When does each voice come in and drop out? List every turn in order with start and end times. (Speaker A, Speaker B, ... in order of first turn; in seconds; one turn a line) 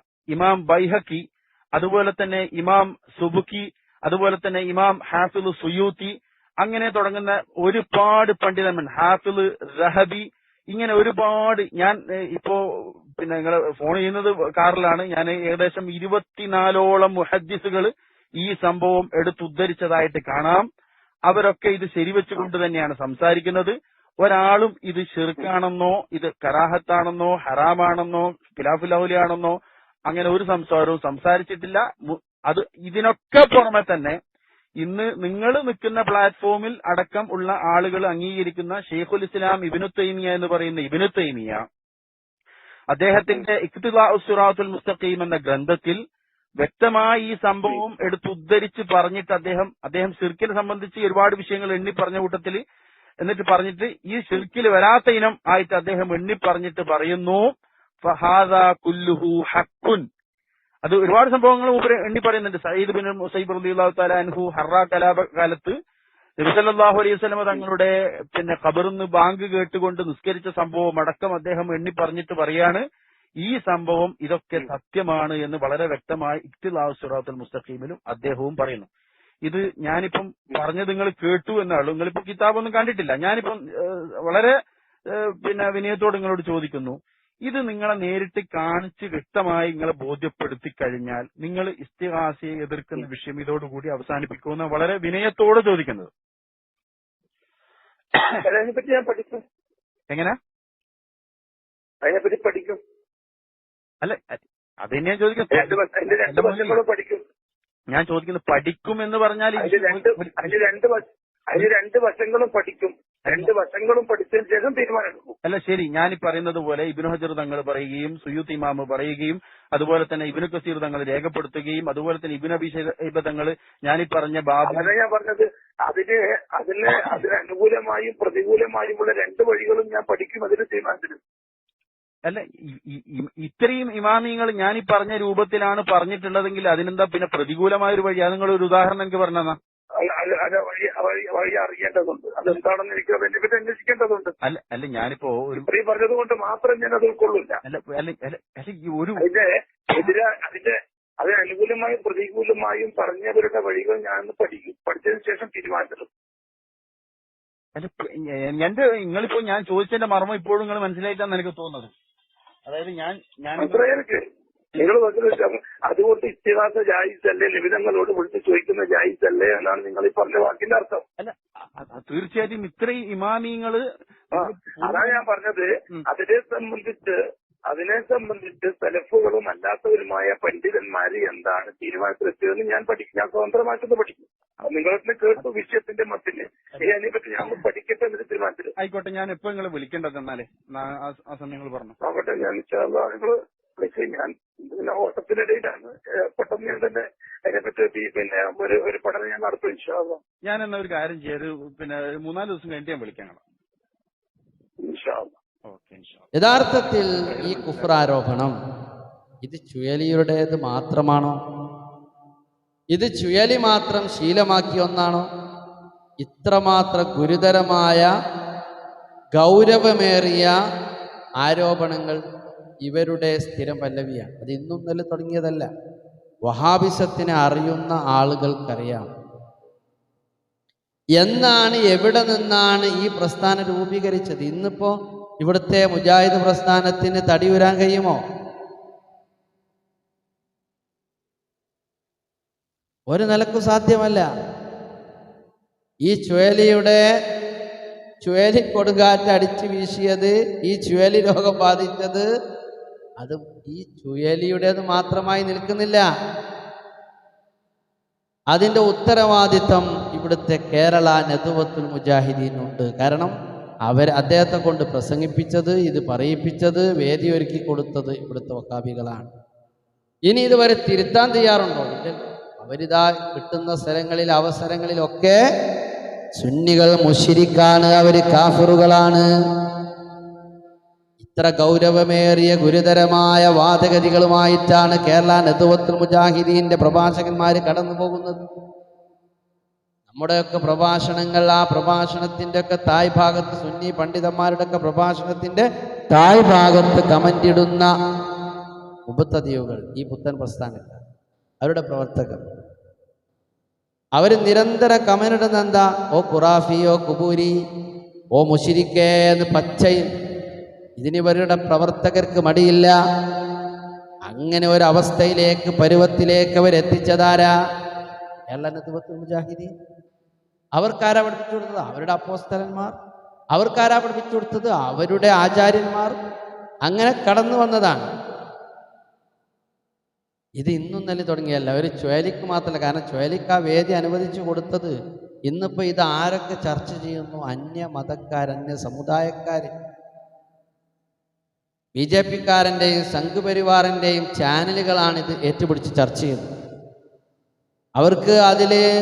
Speaker A: 0.3-12.6
Speaker A: 13.2-20.6
Speaker A: 21.3-29.6
Speaker A: 30.1-34.1
Speaker A: 34.8-41.6
Speaker A: 42.9-46.0
Speaker A: 46.6-52.6
Speaker A: 53.2-57.5
Speaker A: 58.0-60.0
Speaker A: 60.8-65.7
Speaker A: 66.4-72.8
Speaker A: 73.4-78.9
Speaker A: 79.4-84.5
Speaker A: 85.1-96.1
Speaker A: 98.1-98.4
Speaker B: 98.4-99.4
Speaker A: 100.1-100.3
Speaker B: 102.0-102.8
Speaker A: 104.0-106.8
Speaker B: 105.5-107.2
Speaker A: 107.9-110.6
Speaker B: 109.6-115.3
Speaker A: 113.2-113.5
Speaker A: 115.4-124.9
Speaker B: 124.7-131.2
Speaker A: 132.2-139.6
Speaker B: 140.0-144.3
Speaker A: 144.4-145.7
Speaker B: 145.6-147.6
Speaker A: 147.6-149.2
Speaker B: 149.2-156.1
Speaker A: 157.8-161.9
Speaker A: 162.7-163.8
Speaker B: 163.6-164.2
Speaker B: 164.7-171.0
Speaker A: 171.2-175.2
Speaker B: 174.3-177.2
Speaker B: 177.7-188.7
Speaker A: 188.8-191.9
Speaker B: 192.0-200.2
Speaker A: 200.4-203.4
Speaker B: 204.8-205.3
Speaker A: 205.7-206.3
Speaker C: 206.3-208.5
Speaker A: 207.2-207.9
Speaker C: 209.4-211.3
Speaker C: 212.9-215.2
Speaker C: 216.2-218.1
Speaker C: 219.3-220.5
Speaker C: 221.4-222.2
Speaker C: 222.8-225.7
Speaker C: 226.4-229.1
Speaker C: 231.2-238.2
Speaker C: 243.1-244.3
Speaker C: 246.0-247.0
Speaker C: 248.2-252.2
Speaker C: 253.2-256.1
Speaker C: 258.5-263.3
Speaker C: 263.9-269.3
Speaker C: 270.3-275.4
Speaker C: 276.4-279.3
Speaker C: 281.2-288.4
Speaker C: 290.1-297.9
Speaker C: 299.1-301.0
Speaker C: 301.6-302.4
Speaker C: 304.2-307.5
Speaker C: 308.3-310.1
Speaker C: 311.0-312.9
Speaker C: 314.3-317.5
Speaker C: 318.5-319.7
Speaker C: 320.8-322.9
Speaker C: 323.5-326.1
Speaker C: 326.9-328.1
Speaker C: 330.6-334.9
Speaker C: 335.5-339.7
Speaker C: 341.9-346.5
Speaker C: 348.0-348.8